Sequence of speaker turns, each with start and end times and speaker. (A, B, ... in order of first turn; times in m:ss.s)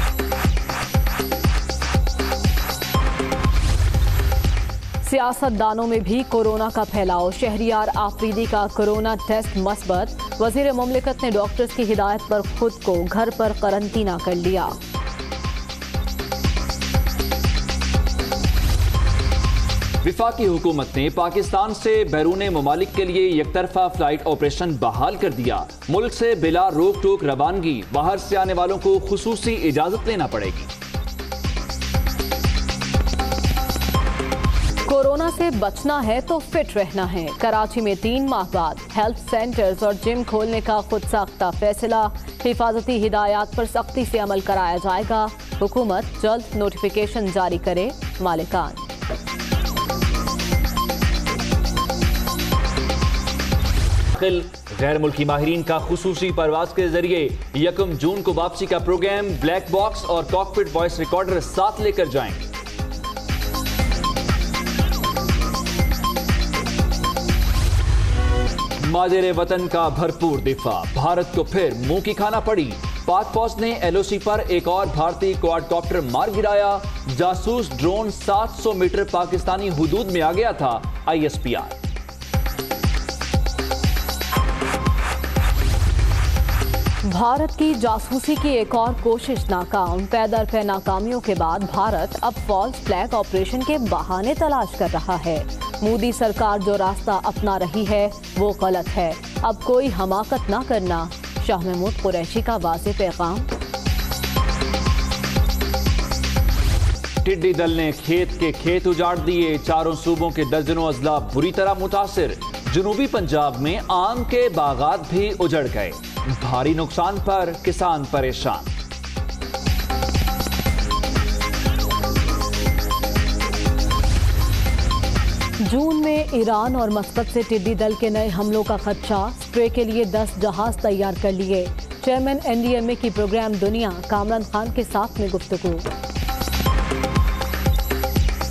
0:05.0-0:14.8 A
0:20.0-0:30.7 B
0:34.8-0:48.8 A
0:54.1-1:02.5 B
1:08.8-1:21.8 B
1:27.0-1:43.5 A
1:47.2-1:58.7 B
2:05.6-2:15.9 A